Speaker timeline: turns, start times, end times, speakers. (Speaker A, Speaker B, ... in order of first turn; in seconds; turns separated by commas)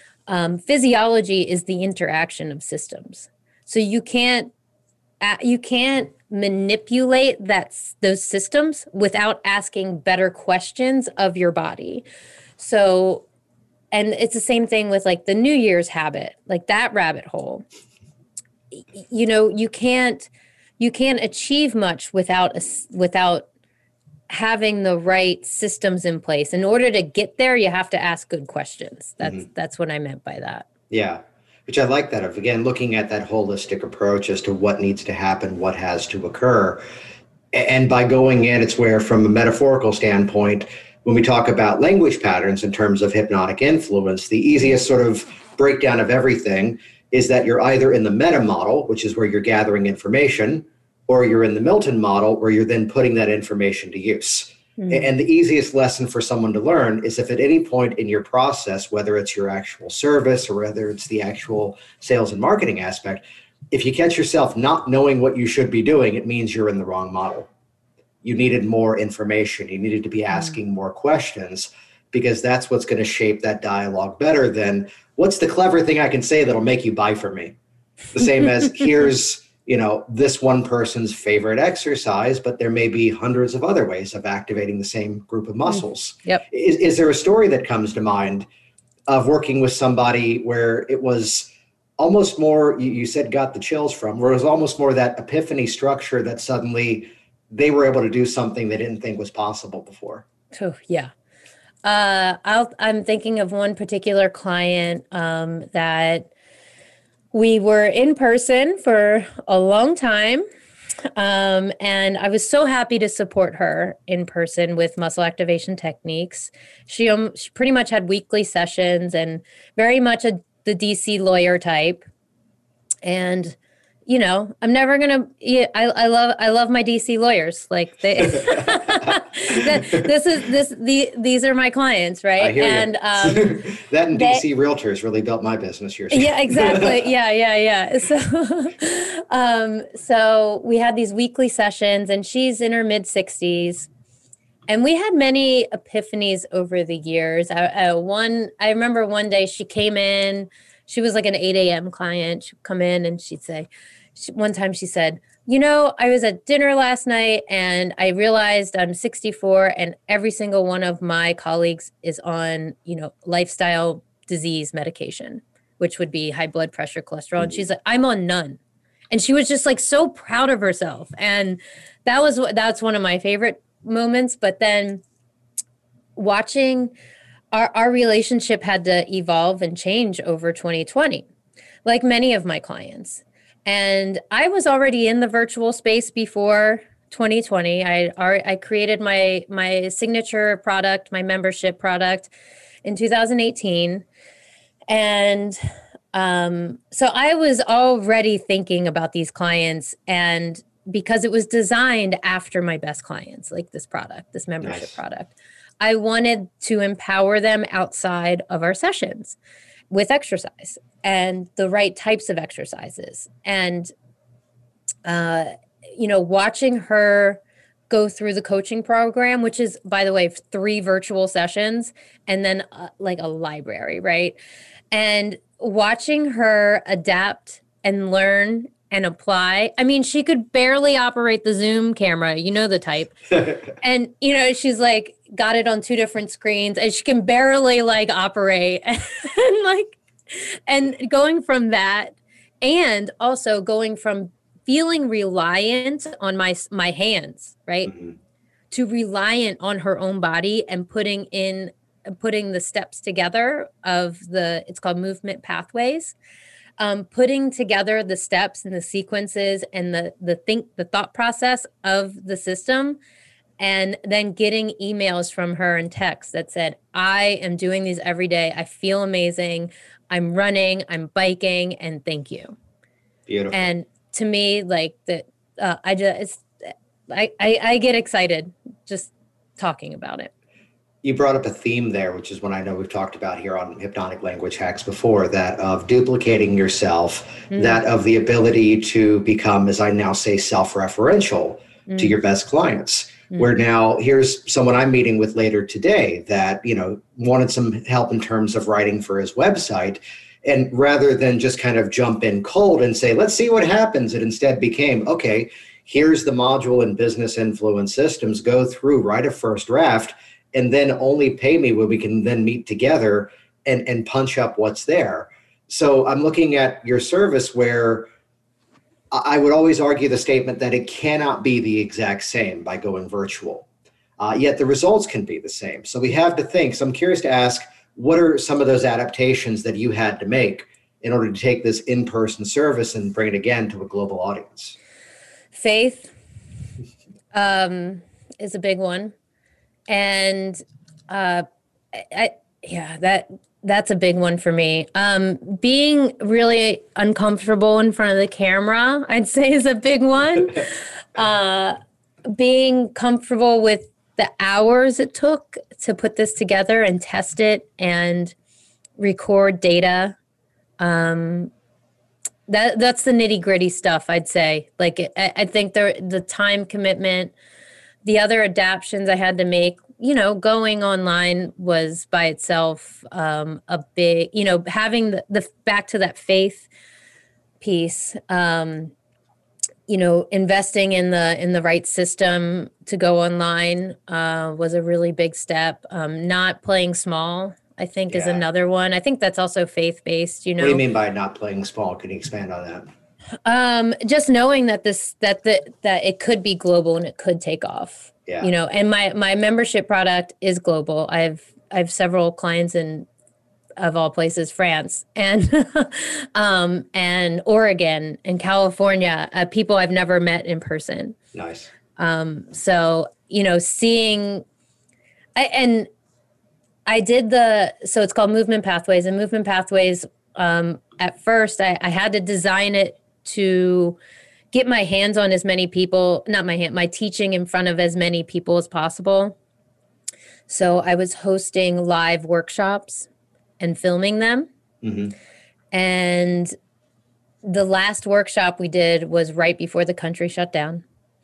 Speaker A: 0.3-4.5, Speaker A: 5.2-12.0, Speaker A: 12.6-13.2, Speaker A: 13.9-17.6, Speaker A: 18.9-23.5, Speaker A: 24.3-30.7, Speaker B: 30.9-36.8, Speaker B: 37.5-67.5, Speaker A: 54.8-55.1, Speaker B: 68.2-77.5, Speaker B: 78.1-88.5, Speaker B: 89.1-100.2, Speaker A: 100.5-101.1, Speaker A: 101.8-106.3, Speaker A: 107.3-110.4, Speaker A: 111.2-122.0, Speaker A: 123.0-134.4, Speaker B: 128.3-130.0, Speaker B: 132.4-137.1, Speaker A: 136.1-143.9, Speaker A: 144.7-168.6, Speaker A: 169.1-175.0, Speaker A: 176.2-176.9, Speaker A: 177.5-181.2, Speaker A: 181.8-192.3, Speaker A: 192.8-194.0, Speaker A: 194.9-195.6, Speaker A: 196.1-209.4, Speaker B: 204.6-204.9, Speaker A: 209.9-213.9, Speaker A: 215.0-224.4, Speaker A: 224.9-247.9, Speaker A: 248.7-256.1, Speaker A: 256.8-263.0, Speaker A: 263.6-272.5, Speaker B: 273.3-273.7, Speaker A: 273.5-280.3, Speaker B: 281.0-318.1, Speaker B: 319.1-323.7, Speaker B: 324.2-334.8, Speaker A: 335.5-336.1, Speaker A: 337.3-339.1, Speaker A: 339.9-358.3, Speaker A: 359.0-360.1, Speaker A: 360.8-361.5, Speaker A: 362.5-367.3, Speaker A: 368.0-376.7, Speaker A: 377.6-378.9, Speaker A: 379.9-390.8, Speaker B: 388.1-388.4, Speaker B: 390.6-392.9, Speaker A: 393.4-403.1, Speaker A: 403.8-411.2, Speaker B: 411.3-411.7, Speaker A: 411.9-414.4, Speaker A: 415.4-415.9, Speaker A: 416.9-424.0, Speaker A: 424.5-429.4, Speaker A: 430.5-433.1, Speaker A: 433.6-434.5, Speaker B: 434.8-435.1, Speaker A: 435.7-436.5, Speaker A: 437.4-440.8